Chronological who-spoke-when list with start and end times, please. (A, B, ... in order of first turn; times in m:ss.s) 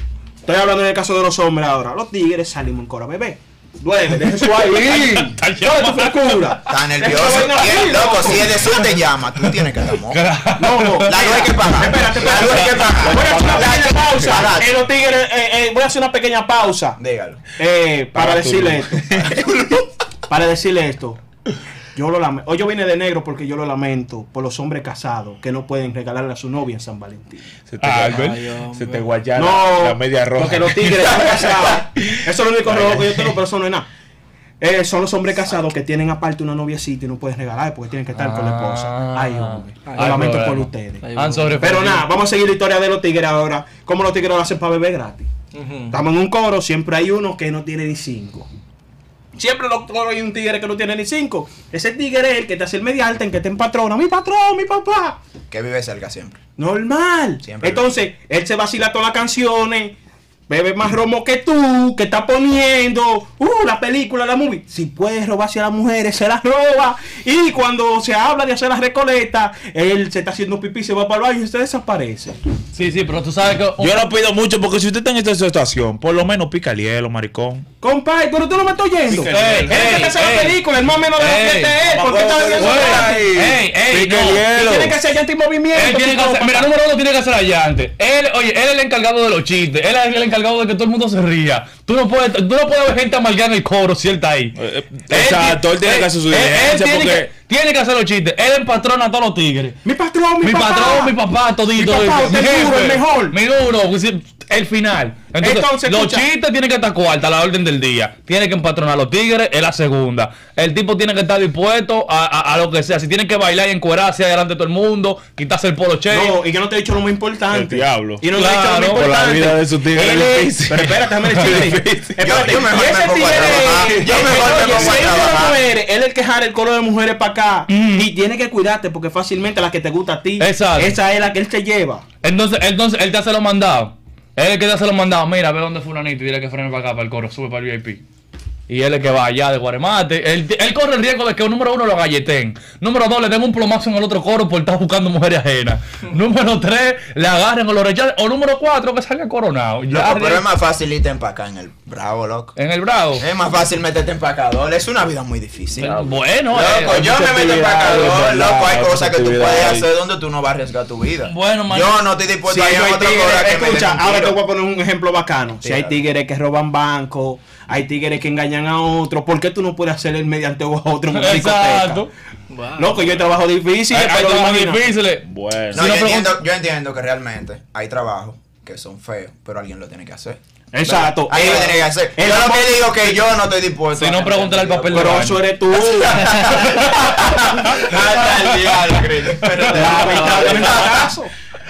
0:00.4-0:08.7 A
0:04.2-0:06.7 B
0:06.7-0:10.2 C
0:09.4-0:11.3 B
0:10.6-0:17.0 A
0:11.0-0:14.8 C
0:12.2-0:12.9 B
0:12.9-0:14.4 D
0:17.0-0:17.4 C
0:17.6-0:19.2 A
0:18.1-0:19.4 D
0:19.3-0:19.8 C
0:20.3-0:21.2 A
0:21.9-0:27.5 A
0:27.7-0:31.5 D
0:27.8-0:28.4 B
0:28.0-0:29.0 E
0:29.4-0:33.9 A
0:32.6-0:33.2 D
0:34.6-0:41.1 A
0:38.2-0:42.1 B
0:39.9-0:40.4 E
0:41.0-0:41.7 E
0:41.6-0:45.3 A
0:45.6-0:46.0 E
0:45.9-0:48.5 A
0:49.4-0:55.2 A
0:55.5-0:56.4 C
0:56.6-1:00.0 A
0:57.4-0:57.8 C
1:00.5-1:12.4 A
1:12.7-1:14.1 B
1:13.8-1:17.6 D
1:17.8-1:23.4 A
1:19.1-1:20.1 D
1:19.2-1:20.6 B
1:21.2-1:21.9 B
1:21.9-1:25.0 D
1:22.5-1:24.5 B
1:24.5-1:26.7 A
1:25.8-1:34.6 B
1:34.6-1:37.3 D
1:35.1-1:39.8 B
1:39.8-1:41.2 A
1:40.4-1:56.4 B
1:41.7-1:43.4 A
1:45.4-1:46.3 A
1:56.1-2:12.0 A
1:57.5-1:58.2 D
1:58.3-1:59.1 B
1:58.9-2:02.3 D
2:02.2-2:05.6 C
2:07.7-2:08.1 B
2:10.4-2:11.0 B
2:12.2-2:18.0 B
2:18.7-2:30.5 B
2:29.9-2:32.6 C
2:32.6-2:33.3 B
2:33.2-2:44.4 C
2:35.8-2:37.2 B
2:36.9-2:39.9 D
2:41.2-2:42.0 B
2:42.4-2:52.1 A
2:45.6-2:46.0 C
2:51.1-2:52.1 B
2:52.5-2:53.0 E
2:52.8-2:54.9 A
2:53.9-2:56.5 B
2:55.2-2:55.9 D
2:55.7-3:11.1 C
3:00.7-3:03.2 A
3:04.0-3:05.5 B
3:04.9-3:06.6 A
3:06.6-3:11.0 B
3:09.7-3:11.3 A
3:10.0-3:10.8 E